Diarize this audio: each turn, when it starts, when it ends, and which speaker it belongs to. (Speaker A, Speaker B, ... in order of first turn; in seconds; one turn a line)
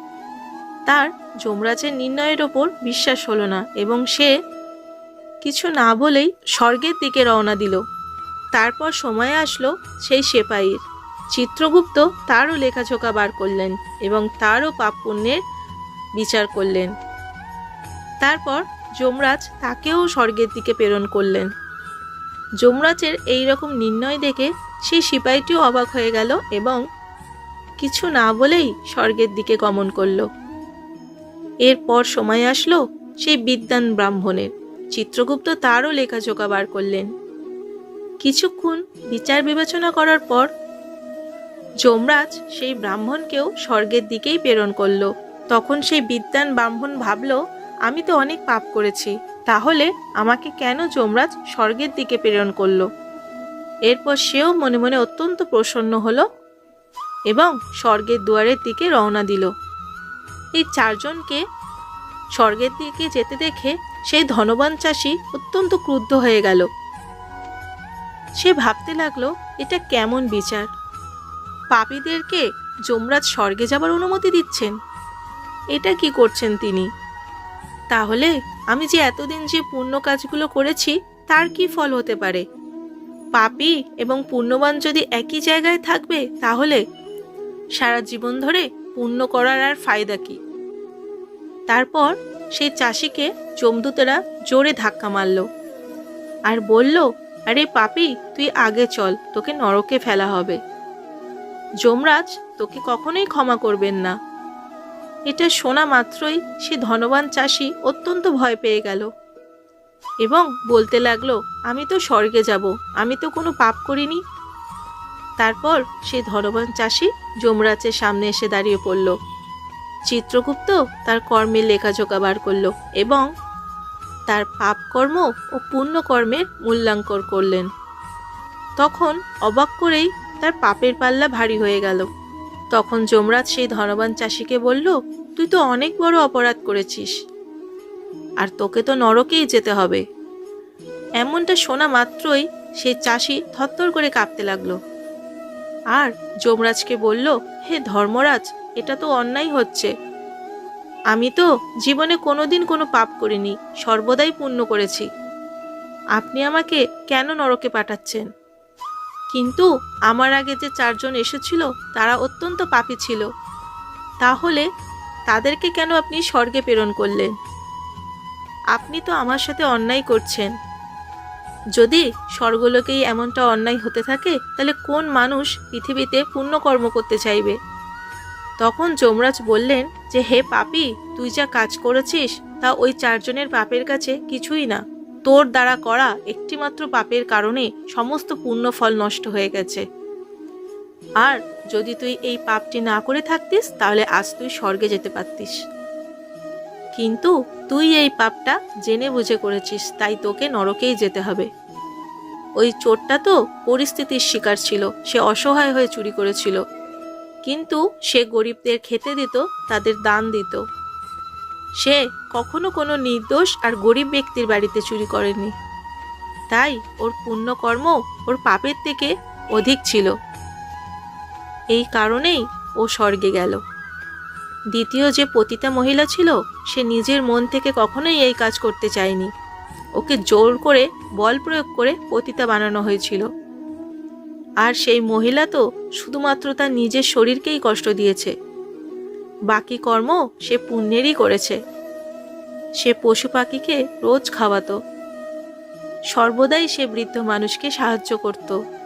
Speaker A: 0.9-4.3
Speaker A: 5.4-7.8
Speaker A: 8.5-10.8
Speaker A: 11.3-15.4
Speaker A: 16.2-16.9
Speaker A: 18.2-21.5
Speaker A: 22.6-26.8
Speaker A: 27.8-30.3
Speaker A: 31.6-37.1
Speaker A: 38.2-40.5
Speaker A: 41.8-52.9
Speaker A: 53.9-56.2
Speaker A: 57.3-59.5
Speaker A: 60.6-61.4
Speaker A: 62.3-66.7
Speaker A: 68.4-70.7
Speaker A: 71.7-74.7
Speaker A: 75.7-76.9
Speaker A: 77.9-82.4
Speaker A: 83.3-86.8
Speaker A: 87.8-90.4
Speaker A: 91.7-95.5
Speaker A: 96.5-100.6
Speaker A: 101.8-104.1
Speaker A: 105.3-109.1
Speaker A: 110.2-114.2
Speaker A: 115.4-119.2
Speaker A: 120.1-123.2
Speaker A: 124.3-127.7
Speaker A: 128.8-132.1
Speaker A: 132.7-137.1
Speaker A: 138.4-140.0
Speaker A: 141.2-144.8
Speaker A: 145.9-149.9
Speaker A: 151.1-155.1
Speaker A: 156.2-158.3
Speaker A: 159.3-163.3
Speaker A: 164.2-164.7
Speaker A: 165.3-167.3
Speaker A: 168.7-170.5
Speaker A: 171.8-177.6
Speaker A: 178.6-189.8
Speaker A: 191.2-195.6
Speaker A: 196.9-201.5
Speaker A: 202.6-206.6
Speaker A: 207.4-210.6
Speaker A: 211.8-215.5
Speaker A: 216.5-220.1
Speaker A: 221.7-223.6
Speaker A: 224.7-229.3
Speaker A: 230.0-233.2
Speaker A: 234.6-238.3
Speaker A: 239.5-241.6
Speaker A: 242.8-244.8
Speaker A: 246.1-248.6